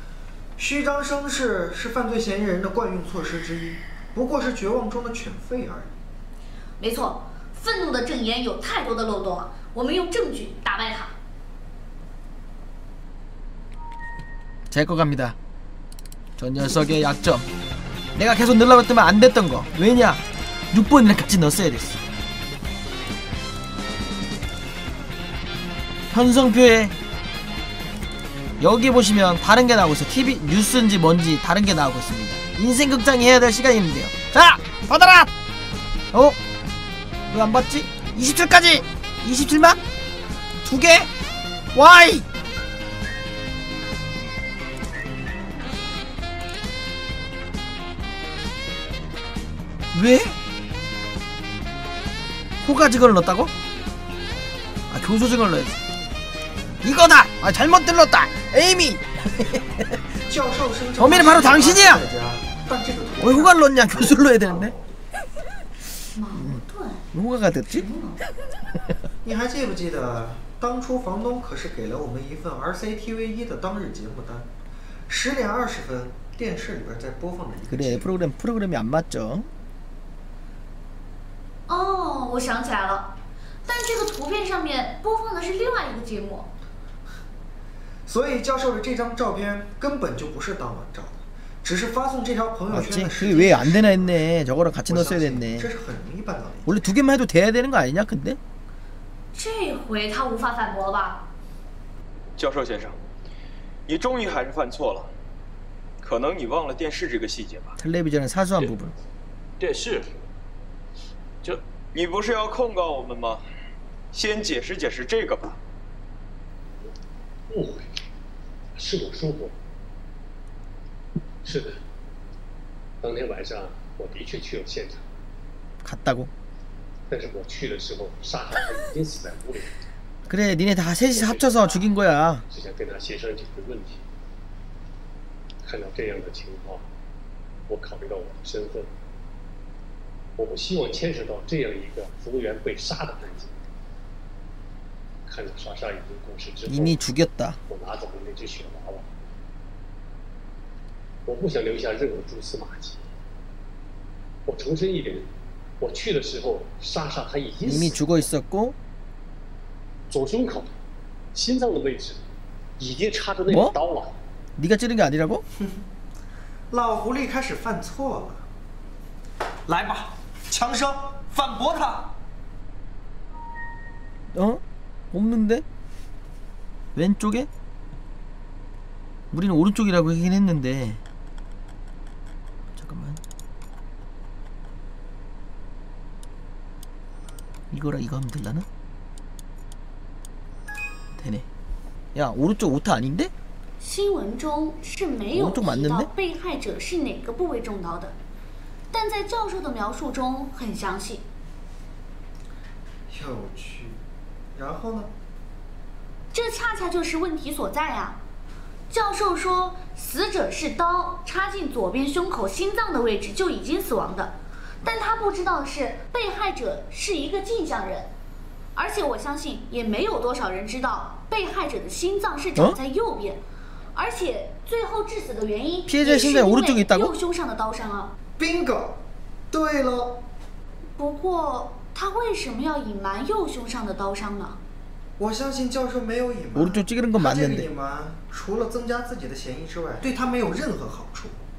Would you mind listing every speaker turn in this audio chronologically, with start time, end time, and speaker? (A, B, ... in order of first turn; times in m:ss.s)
0:00.6-0:05.9 A
0:06.8-0:11.1 B
0:14.7-0:15.4 C
0:16.4-0:17.5 C
0:18.2-0:22.0 C
0:26.1-0:27.0 C
0:28.6-0:35.3 C
0:37.3-0:39.8 C
0:40.6-0:41.1 C
0:41.8-0:42.2 C
0:49.9-0:50.3 C
0:52.6-0:53.5 C
0:54.9-0:55.8 C
0:56.8-1:00.0 C
1:00.3-1:04.8 A
1:01.0-1:02.0 C
1:03.2-1:04.7 C
1:06.2-1:07.0 B
1:06.3-1:07.9 C
1:07.7-1:08.2 A
1:09.2-1:14.5 A
1:15.1-1:18.1 A
1:17.7-1:19.5 C
1:21.7-1:23.1 B
1:23.6-1:26.5 B
1:28.1-1:34.2 A
1:32.7-1:35.7 C
1:34.9-1:36.8 A
1:36.7-1:38.4 C
1:39.3-1:41.3 B
1:42.4-1:43.0 D
1:43.9-1:45.1 D
1:46.0-1:47.8 D
1:47.8-1:48.9 C
1:49.6-1:50.2 E
1:51.9-1:53.4 D
1:54.1-1:55.6 D
1:57.5-1:58.0 E
1:58.8-1:59.6 E
2:01.4-2:01.8 E
2:03.0-2:05.0 E
2:05.8-2:06.3 C
2:07.1-2:09.7 E
2:10.3-2:12.4 C
2:11.1-2:11.9 E
2:12.5-2:14.0 E
2:15.6-2:16.9 E
2:17.7-2:18.9 E
2:20.4-2:23.5 E
2:25.3-2:27.0 E
2:26.7-2:27.6 C
2:27.7-2:29.1 E
2:31.3-2:33.0 E
2:34.5-2:35.3 E
2:35.8-2:38.1 E
2:37.6-2:38.8 C
2:40.1-2:40.7 E
2:41.3-2:42.2 E
2:42.8-2:44.1 E
2:43.5-2:43.8 C
2:44.6-2:45.4 C
2:46.7-2:48.4 A
2:49.7-2:52.1 A
2:54.3-2:55.6 C
2:57.0-2:57.5 C
2:59.3-3:01.0 C
3:02.8-3:03.2 C
3:07.7-3:08.7 C
3:11.2-3:11.5 C
3:12.2-3:13.3 C
3:13.8-3:18.2 B
3:15.3-3:16.1 C
3:18.9-3:21.3 B
3:23.1-3:24.0 A
3:24.6-3:25.1 A
3:26.3-3:28.2 B
3:28.9-3:38.1 B
3:38.8-3:43.4 B
3:44.0-3:48.1 B
3:45.9-3:47.1 C
3:48.4-3:50.2 A
3:51.0-3:54.6 B
3:55.2-4:01.4 A
3:56.6-3:57.7 C